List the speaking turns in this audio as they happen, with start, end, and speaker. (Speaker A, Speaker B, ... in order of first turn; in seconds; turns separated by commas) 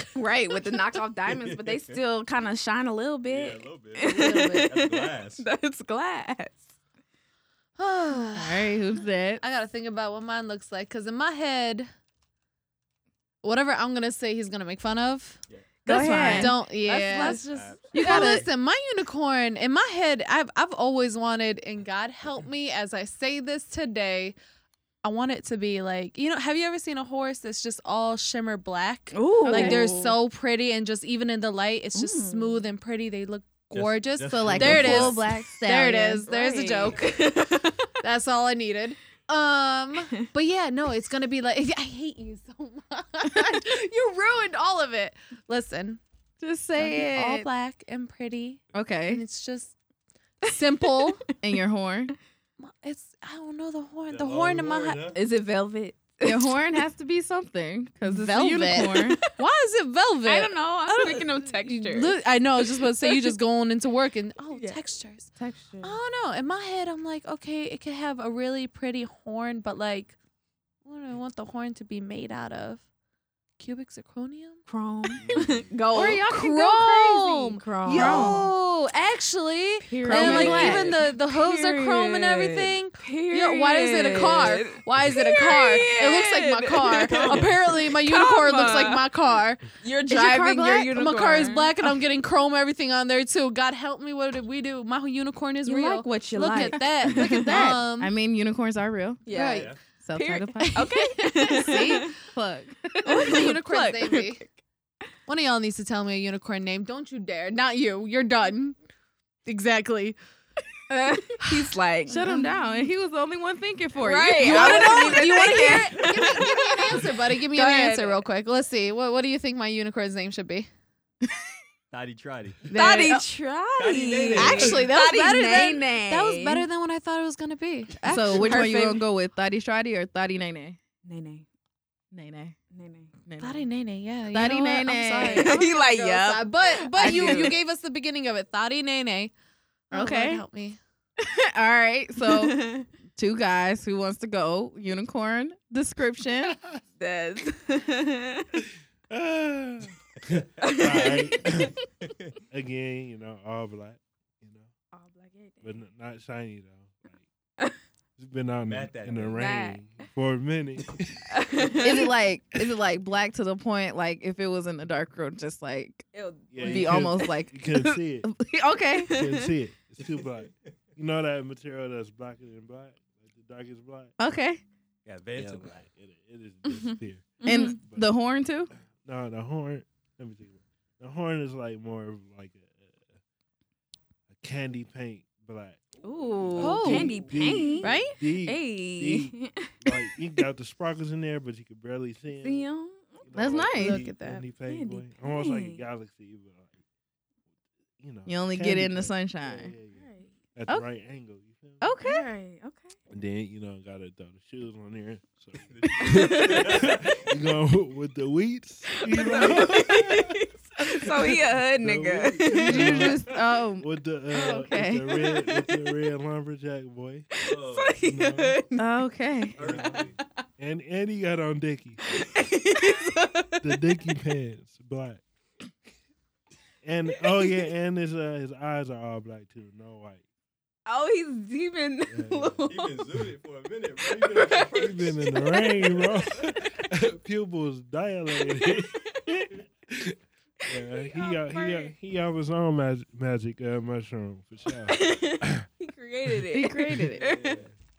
Speaker A: 0.1-6.7, Speaker B: 1.3-2.0, Speaker B: 3.3-5.4, Speaker C: 4.1-4.6, Speaker C: 7.8-8.8, Speaker D: 8.3-9.4, Speaker C: 9.4-11.9, Speaker C: 13.4-24.4, Speaker D: 15.8-16.6, Speaker A: 15.9-17.7, Speaker B: 17.5-18.4, Speaker D: 17.9-18.4, Speaker C: 25.0-46.0, Speaker A: 29.1-30.1, Speaker D: 29.4-29.9, Speaker A: 31.9-32.7, Speaker B: 33.7-35.2, Speaker D: 34.3-36.3, Speaker A: 36.2-37.9, Speaker D: 46.4-47.5, Speaker C: 46.8-49.8, Speaker D: 48.7-49.2, Speaker C: 50.4-51.3, Speaker A: 50.5-51.1, Speaker D: 51.4-52.1, Speaker C: 52.6-55.1, Speaker B: 54.1-55.2, Speaker A: 55.1-56.5, Speaker D: 56.2-59.2, Speaker C: 58.0-65.3, Speaker A: 58.8-59.2, Speaker A: 60.2-63.4, Speaker A: 64.5-64.8, Speaker A: 65.3-66.0, Speaker C: 65.8-70.2, Speaker C: 70.8-72.8, Speaker C: 73.6-74.6, Speaker A: 74.7-76.3, Speaker B: 75.2-75.7, Speaker D: 75.9-78.5, Speaker C: 76.2-89.7, Speaker A: 77.5-78.4, Speaker A: 79.8-89.1, Speaker D: 80.0-80.9, Speaker B: 87.1-87.6, Speaker A: 89.8-91.9, Speaker D: 90.1-90.9, Speaker C: 90.8-98.1, Speaker A: 95.6-97.5, Speaker D: 97.1-99.2, Speaker A: 99.2-102.1, Speaker C: 99.3-99.7, Speaker B: 99.5-99.8, Speaker D: 99.8-103.4, Speaker C: 101.5-102.2, Speaker A: 103.0-104.5, Speaker C: 103.1-104.5, Speaker C: 105.3-108.8, Speaker C: 109.5-110.2, Speaker A: 110.9-112.5, Speaker D: 112.1-115.7, Speaker A: 114.0-118.2, Speaker C: 114.4-120.7, Speaker D: 121.2-121.5, Speaker B: 121.9-122.6, Speaker D: 122.7-123.2, Speaker A: 122.7-126.7, Speaker B: 123.8-124.9, Speaker D: 124.4-124.8, Speaker C: 124.4-128.6, Speaker D: 128.0-130.8, Speaker A: 128.3-129.0, Speaker A: 131.0-131.4, Speaker D: 132.1-132.6, Speaker A: 132.7-133.1, Speaker D: 133.3-133.7, Speaker C: 133.4-139.3, Speaker D: 134.3-135.7, Speaker A: 135.2-137.6, Speaker D: 137.0-137.4, Speaker C: 139.9-140.8, Speaker D: 139.9-140.4, Speaker D: 141.2-142.6, Speaker A: 142.2-142.9, Speaker D: 143.1-146.6, Speaker A: 147.0-148.5, Speaker E: 149.1-151.8, Speaker A: 150.6-151.4, Speaker B: 152.0-152.3, Speaker E: 152.5-154.7, Speaker A: 154.9-155.8, Speaker E: 155.6-157.2, Speaker E: 158.2-161.7, Speaker B: 158.7-159.5, Speaker A: 159.3-159.8, Speaker A: 161.3-162.1, Speaker D: 161.8-166.1, Speaker A: 166.1-167.2, Speaker E: 166.5-168.3, Speaker D: 166.6-169.2, Speaker A: 169.1-169.4, Speaker E: 169.1-174.1, Speaker B: 170.2-170.7, Speaker D: 174.2-174.6, Speaker B: 175.1-175.9, Speaker E: 175.3-178.1, Speaker A: 177.4-177.8, Speaker D: 177.4-178.7, Speaker E: 179.0-183.0, Speaker E: 184.4-185.8, Speaker B: 185.9-187.7, Speaker A: 186.0-190.1, Speaker E: 186.6-192.7, Speaker D: 186.6-187.2, Speaker C: 186.6-186.9, Speaker D: 187.8-188.1, Speaker A: 192.3-195.8, Speaker E: 193.2-196.7, Speaker D: 193.3-194.1, Speaker E: 198.0-201.8, Speaker D: 198.3-199.7, Speaker A: 199.9-200.3, Speaker D: 201.8-202.3, Speaker A: 202.0-203.0, Speaker E: 203.1-217.3, Speaker B: 205.6-207.3, Speaker A: 208.9-213.1, Speaker B: 209.4-209.8, Speaker D: 212.5-215.4, Speaker A: 215.3-215.7, Speaker B: 217.4-218.0, Speaker A: 217.4-218.8, Speaker E: 218.0-218.6, Speaker D: 218.8-219.6, Speaker B: 219.5-220.2, Speaker E: 219.6-222.0, Speaker A: 222.2-223.6, Speaker E: 223.6-225.2, Speaker E: 226.8-230.2, Speaker A: 230.8-233.0, Speaker E: 232.1-232.7, Speaker B: 232.7-236.8, Speaker A: 234.2-234.7, Speaker E: 234.8-245.7, Speaker A: 235.2-235.9, Speaker A: 238.7-239.2, Speaker A: 240.8-241.9, Speaker A: 244.9-247.5, Speaker D: 246.5-247.6, Speaker E: 246.9-247.6, Speaker B: 247.2-247.7